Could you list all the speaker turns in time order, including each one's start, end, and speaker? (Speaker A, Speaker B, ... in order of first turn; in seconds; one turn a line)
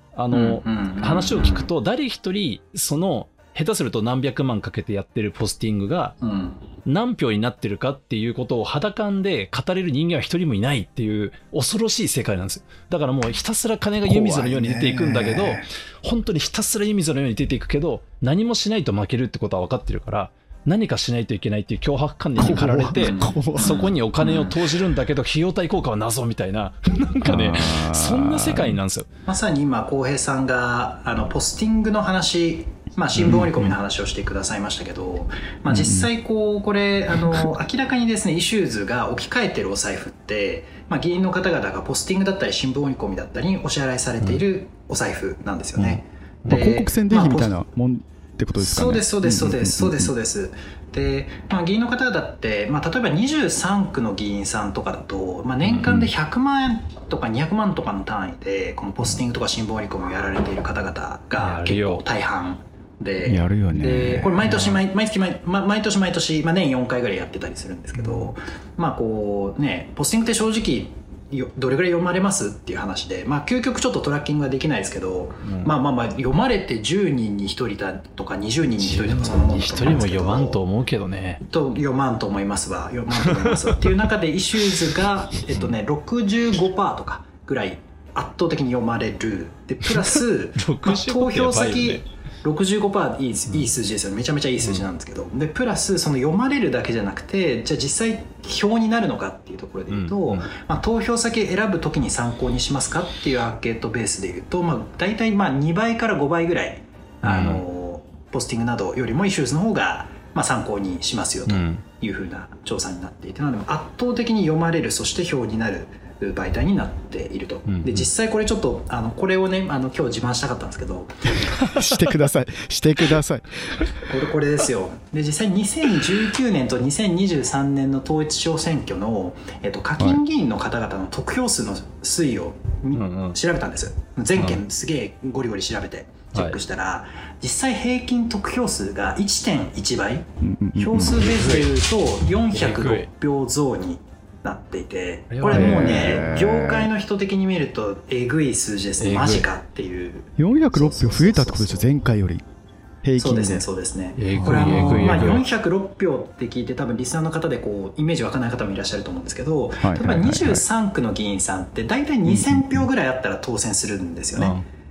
Speaker A: 0.1-6.2
Speaker B: 0.3-1.7
Speaker B: 6.2-6.6
Speaker A: 6.8-29.1
Speaker C: 14.0-15.7
Speaker C: 22.4-23.9
Speaker B: 22.9-24.6
Speaker C: 27.2-28.8
Speaker B: 29.2-47.5
Speaker C: 33.2-33.7
Speaker C: 35.7-36.1
Speaker C: 45.8-50.1
Speaker B: 48.5-80.6
Speaker A: 55.6-55.9
Speaker C: 55.8-56.1
Speaker A: 61.4-62.0
Speaker C: 63.2-64.7
Speaker A: 75.4-75.7
Speaker A: 78.8-81.4
Speaker B: 81.4-121.3
Speaker A: 83.2-83.9
Speaker A: 85.5-85.8
Speaker A: 89.8-92.0
Speaker A: 99.9-100.5
Speaker A: 107.2-107.6
Speaker A: 111.5-111.8
Speaker A: 117.7-118.1
Speaker C: 121.5-123.9
Speaker B: 124.0-151.9
Speaker A: 132.9-133.3
Speaker A: 134.4-134.6
Speaker C: 140.4-141.6
Speaker A: 141.3-141.6
Speaker A: 142.5-143.1
Speaker A: 145.3-146.2
Speaker C: 145.4-146.9
Speaker A: 149.0-149.5
Speaker C: 150.4-152.4
Speaker C: 153.0-153.7
Speaker B: 153.2-164.5
Speaker A: 154.2-155.4
Speaker C: 154.3-155.4
Speaker C: 159.8-160.7
Speaker C: 162.3-162.9
Speaker A: 164.3-164.6